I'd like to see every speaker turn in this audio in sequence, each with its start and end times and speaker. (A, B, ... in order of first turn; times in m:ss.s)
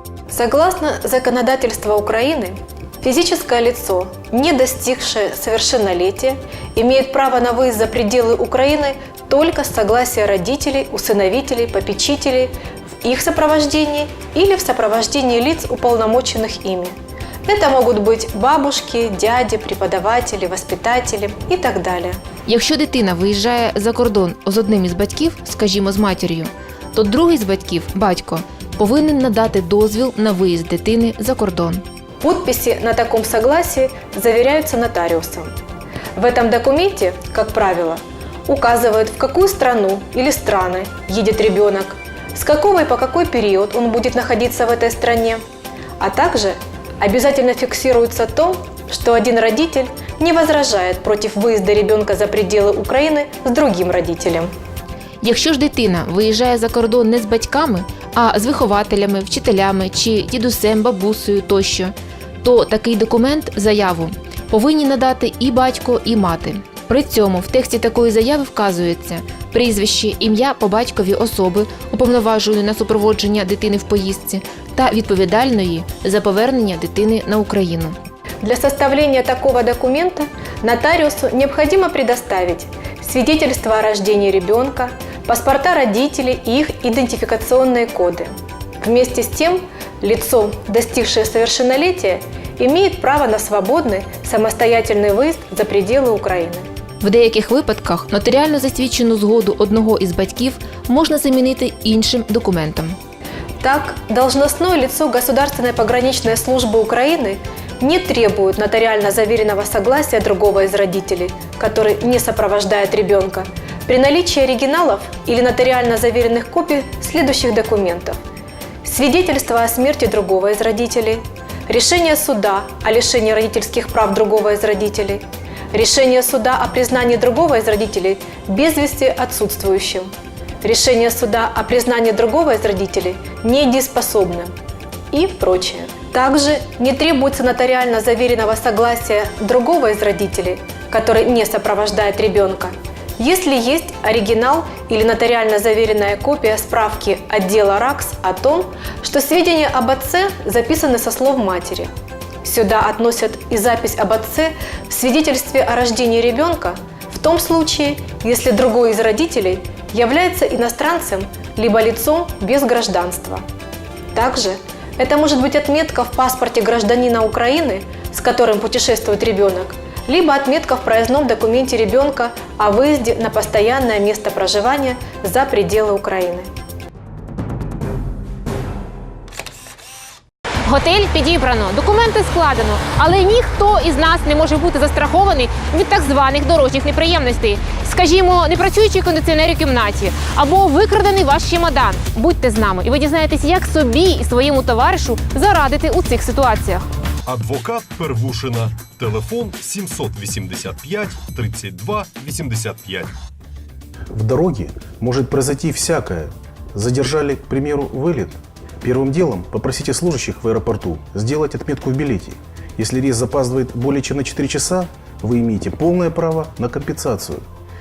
0:00.3-0:22.2 A
0:22.5-0:31.8 B
0:32.2-0:35.5 A
0:36.2-0:45.4 A
0:46.0-0:54.5 A
0:55.2-1:18.0 B
1:18.4-1:36.6 A
1:37.0-1:43.0 B
1:43.6-1:58.2 A
1:58.8-2:10.1 A
2:10.6-2:14.5 A
2:15.1-2:31.9 A
2:32.4-2:43.4 A
2:44.1-2:56.5 A
3:00.6-3:16.9 B
3:17.2-3:23.1 C
3:24.1-3:37.4 D